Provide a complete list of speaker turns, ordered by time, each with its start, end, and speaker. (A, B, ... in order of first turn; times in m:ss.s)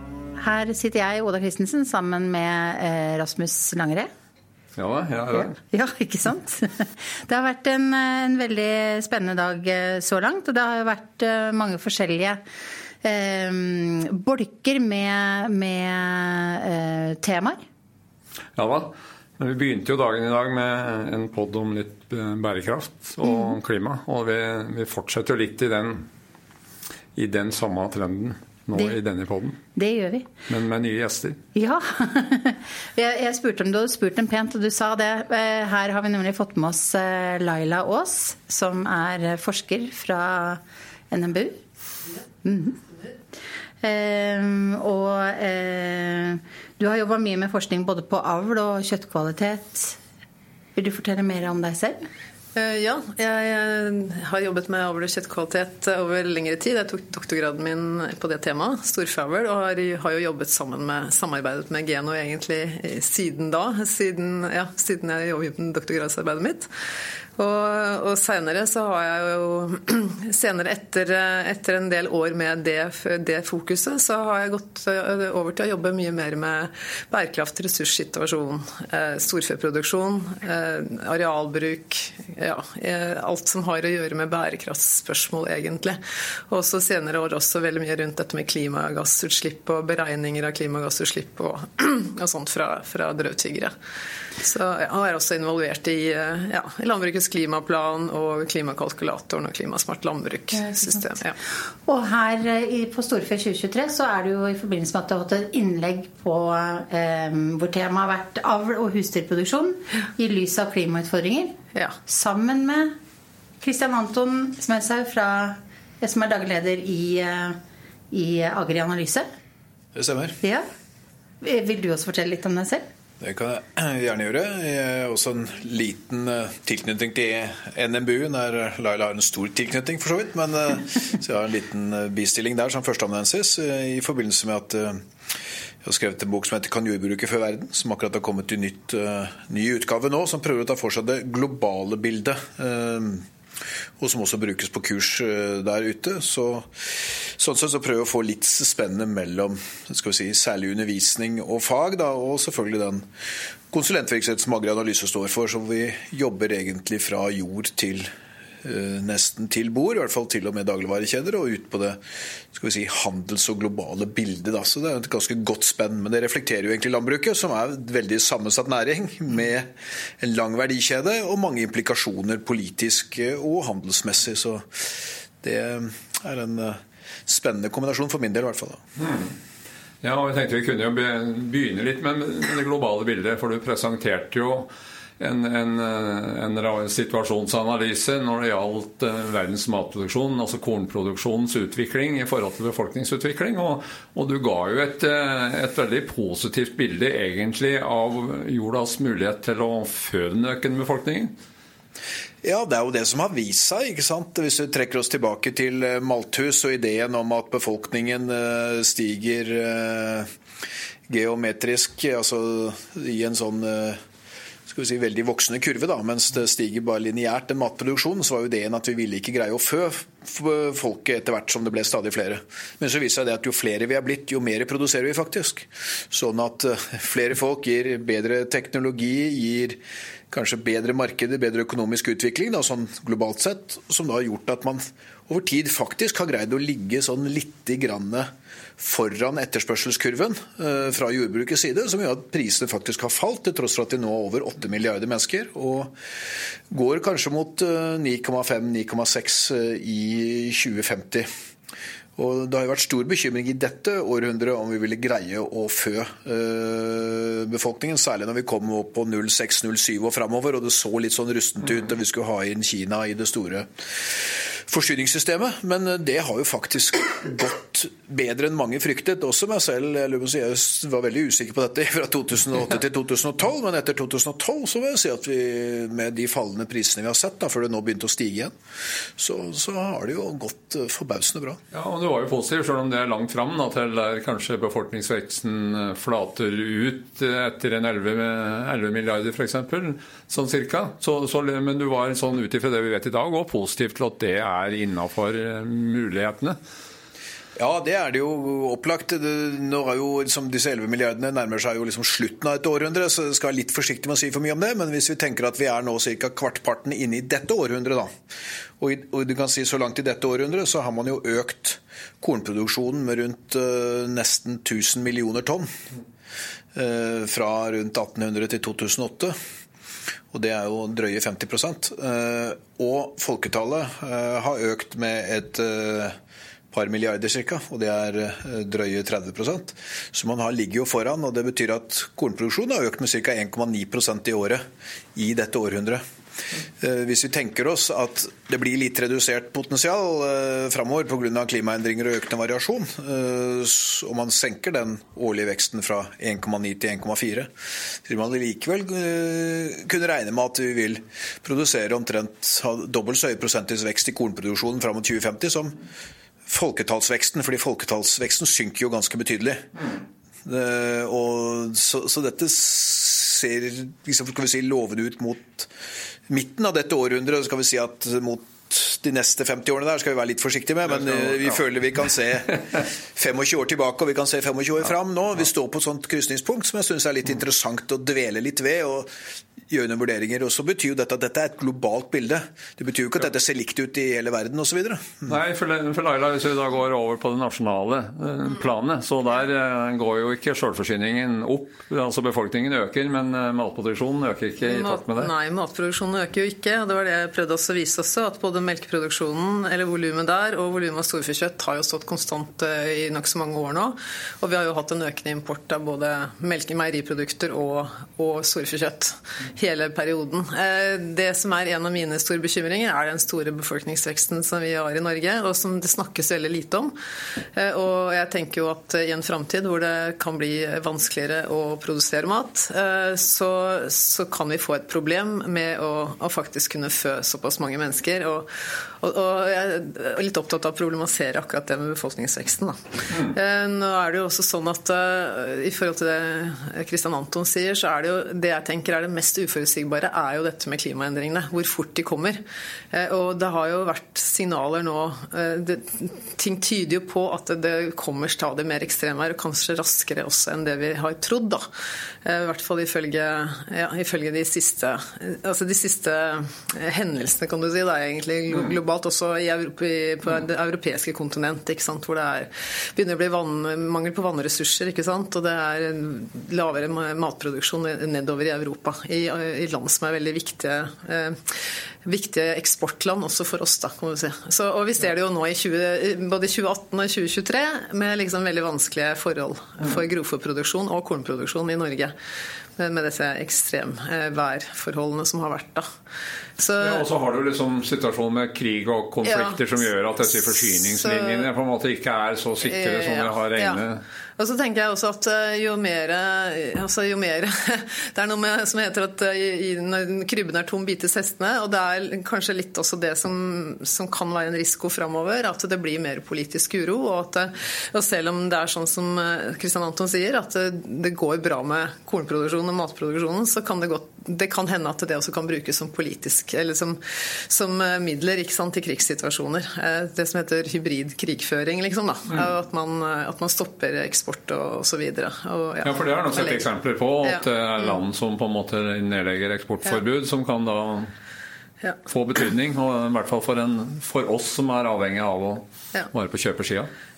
0:00.4-0:04.1 A
0:04.8-0:05.5 B
0:05.3-0:12.4 A
0:13.0-0:17.6 A
0:18.6-0:26.0 B
0:23.3-0:23.5 A
0:27.2-0:29.6 B
0:29.8-0:30.3 A
0:30.5-0:31.4 B
0:31.6-0:41.6 A
0:42.4-0:42.8 A
0:43.8-0:50.0 A
0:50.8-0:52.1 A
0:52.6-1:06.7 C
1:07.4-1:33.7 C
1:34.4-1:41.3 C
1:41.9-1:53.0 A
1:53.6-1:57.6 A
1:58.1-1:59.3 A
1:59.9-2:00.4 D
2:01.4-2:02.8 A
2:03.2-2:15.0 D
2:15.8-2:23.2 D
2:24.0-2:33.0 D
2:33.7-2:38.1 D
2:38.6-2:42.0 D
2:42.5-2:58.8 D
2:59.0-2:59.3 B
3:00.0-3:21.3 B
3:22.4-3:30.3 D
3:31.1-3:34.0 D
3:34.7-3:49.8 D
3:50.3-4:05.9 D
4:06.7-4:11.3 D
4:12.2-4:38.5 D
4:39.2-4:41.6 D
4:41.7-4:56.6 B
4:57.6-5:08.1 D
5:08.8-5:15.7 D
5:16.7-5:19.3 D
5:20.3-5:26.1 D
5:26.7-5:34.6 D
5:35.1-5:36.0 D
5:36.8-5:47.5 D
5:48.0-5:55.7 D
5:56.5-5:59.7 D
6:00.4-6:05.7 D
6:06.3-6:19.1 D
6:11.0-6:11.5 B
6:19.7-6:25.4 D
6:25.2-6:35.3 B
6:34.6-6:56.9 C
6:57.5-7:22.4 C
7:22.9-7:31.6 C
7:32.2-8:02.1 C
8:02.8-8:05.9 C
8:06.6-8:07.0 C
8:06.8-8:14.0 B
8:09.2-8:09.6 C
8:10.4-8:11.5 C
8:12.6-8:13.8 C
8:14.4-8:46.7 C
8:45.8-8:51.1 B
8:47.2-8:48.0 C
8:52.1-8:56.9 B